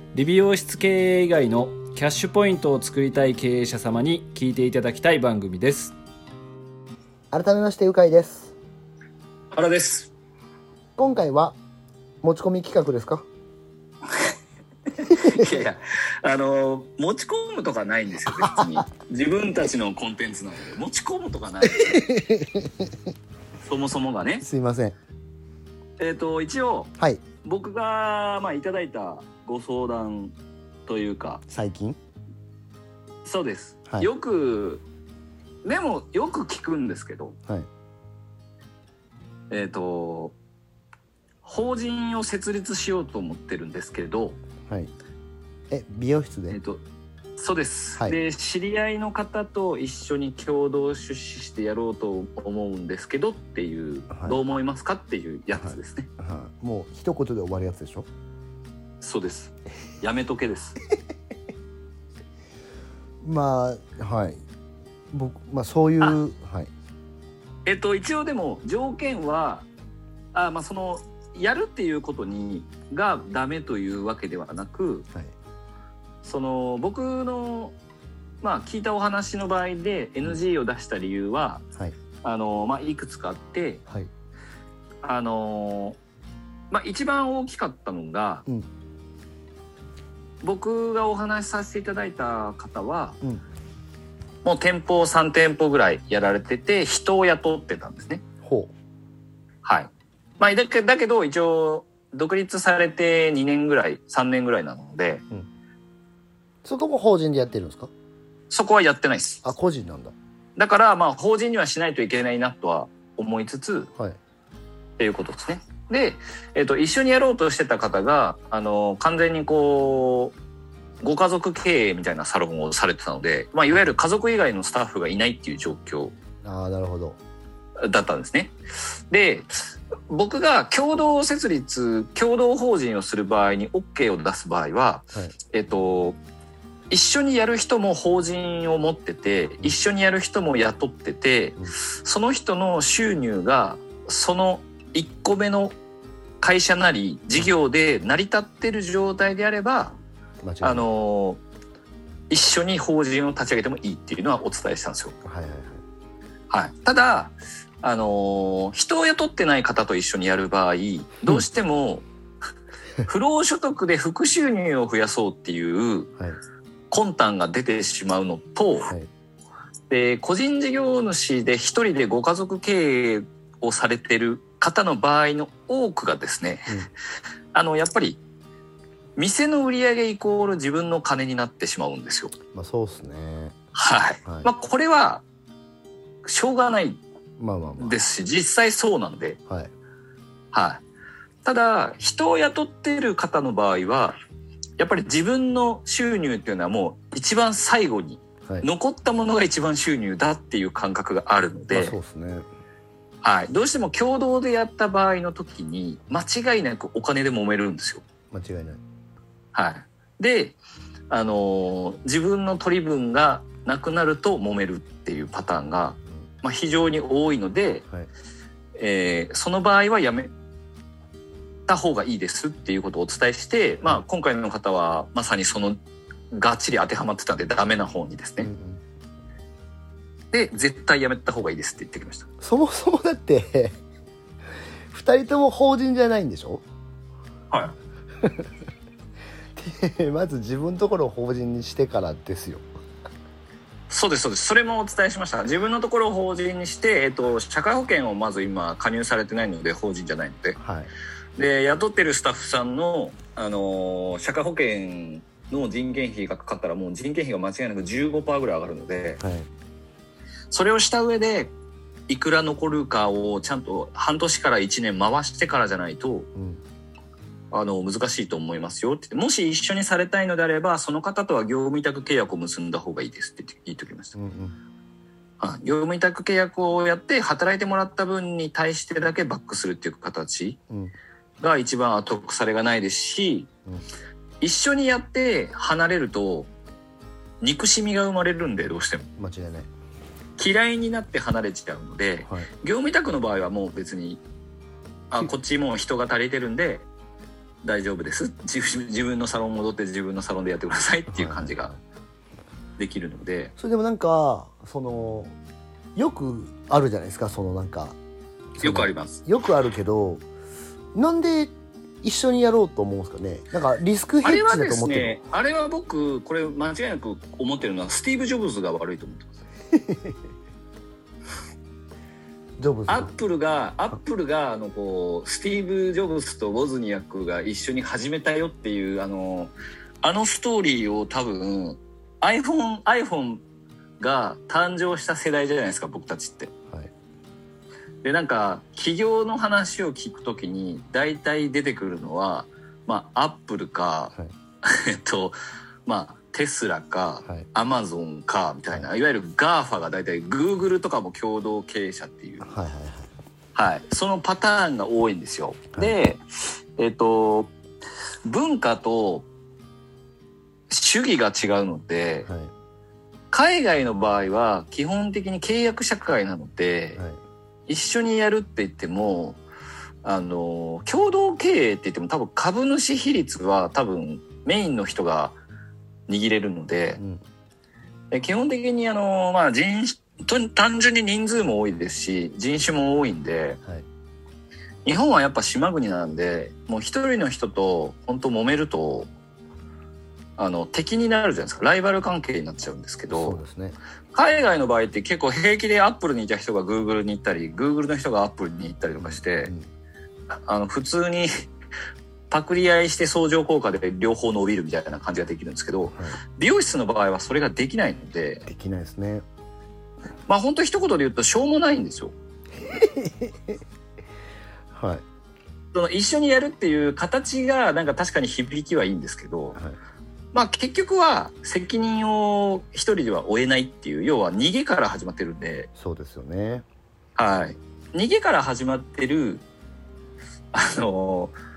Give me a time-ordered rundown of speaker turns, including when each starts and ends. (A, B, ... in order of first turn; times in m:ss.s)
0:00.1-0:05.9 A
0:07.3-0:08.5 B
0:09.5-0:10.1 C
0:11.0-0:11.6 B
0:12.2-0:13.3 B
0:15.0-0:21.9 C
0:15.1-0:15.5 B
0:18.4-0:18.7 B
0:21.7-0:22.9 B
0:23.7-0:24.4 C
0:24.4-0:25.0 B
0:26.0-0:26.9 C
0:27.4-0:30.4 C
0:30.9-0:31.4 C
0:31.5-0:32.0 B
0:33.2-0:34.8 C
0:35.6-0:37.4 C
0:39.5-0:40.4 C
0:41.4-0:44.4 C
0:45.7-0:46.6 B
0:46.5-0:46.8 C
0:47.4-0:56.1 C
0:54.1-0:54.4 B
0:55.6-0:58.1 B
0:59.0-1:00.8 C
1:03.2-1:04.4 B
1:05.1-1:06.7 B
1:07.6-1:09.7 C
1:10.3-1:15.1 C
1:16.2-1:17.8 C
1:18.4-1:21.6 C
1:22.2-1:23.8 C
1:25.0-1:26.0 C
1:26.7-1:28.4 C
1:30.4-1:33.2 C
1:34.4-1:38.2 C
1:38.4-1:38.7 B
1:39.6-1:45.2 C
1:46.6-1:47.9 B
1:48.5-1:49.4 C
1:49.4-1:50.1 B
1:50.6-1:53.9 C
1:55.0-2:00.4 C
2:01.0-2:06.2 C
2:06.4-2:07.2 B
2:07.8-2:16.2 C
2:16.9-2:25.8 C
2:26.4-2:30.0 C
2:30.4-2:30.9 B
2:30.6-2:31.4 C
2:32.3-2:35.2 C
2:35.2-2:35.8 B
2:36.5-2:42.0 C
2:43.1-2:46.1 C
2:46.9-2:48.9 C
2:49.9-2:56.8 C
2:57.5-2:58.2 C
2:59.2-3:02.3 C
3:02.5-3:03.6 B
3:03.7-3:05.2 C
3:06.2-3:07.0 C
3:07.4-3:08.0 B
3:07.8-3:09.4 C
3:10.5-3:10.8 C
3:11.4-3:14.2 C
3:14.8-3:22.0 C
3:21.7-3:22.4 B
3:23.2-3:28.0 C
3:28.3-3:28.8 B
3:29.5-3:30.6 C
3:31.1-3:37.8 C
3:38.8-3:40.3 C
3:41.7-3:45.8 C
3:46.3-3:48.5 C
3:48.4-3:48.8 B
3:50.3-3:52.3 C
3:52.4-3:53.8 B
3:54.9-3:56.6 B
3:59.6-4:02.6 B
4:03.9-4:10.6 C
4:10.6-4:10.9 B
4:11.4-4:19.2 C
4:19.2-4:19.5 B
4:20.5-4:21.5 C
4:22.1-4:26.3 C
4:26.4-4:26.6 B
4:27.5-4:34.2 C
4:34.2-4:34.6 B
4:35.4-4:40.6 C
4:40.7-4:40.9 B
4:41.4-4:43.5 C
4:44.4-4:46.5 C
4:47.4-4:49.0 C
4:49.1-4:49.7 B
4:50.4-4:54.2 C
4:55.1-4:56.9 C
4:57.6-5:01.7 C
5:01.1-5:01.8 B
5:02.8-5:03.5 C
5:03.6-5:05.3 B
5:06.0-5:08.0 B
5:08.6-5:10.2 B
5:08.6-5:09.2 C
5:11.0-5:15.2 B
5:14.2-5:19.4 C
5:19.7-5:20.2 B
5:22.6-5:23.1 B
5:22.9-5:33.4 C
5:34.0-5:36.5 C
5:38.0-5:52.5 C
5:52.4-5:53.1 B
5:53.6-5:56.2 C
5:56.8-5:57.5 C
5:58.3-5:59.3 C
6:00.7-6:02.3 C
6:02.3-6:02.5 B
6:03.3-6:07.0 C
6:07.7-6:09.4 C
6:10.0-6:15.4 C
6:16.1-6:17.0 C
6:18.1-6:23.6 C
6:24.8-6:29.1 C
6:30.4-6:33.4 C
6:33.1-6:33.8 B
6:34.1-6:39.5 C
6:39.0-6:39.7 B
6:40.3-6:41.4 C
6:42.3-6:48.5 C
6:45.9-6:46.2 B
6:48.5-6:49.2 B
6:50.3-6:52.1 C
6:52.6-6:53.6 B
6:54.7-6:55.0 B
6:55.7-6:59.6 C
7:00.3-7:05.7 C
7:05.8-7:06.7 B
7:07.2-7:09.4 C
7:10.5-7:11.4 C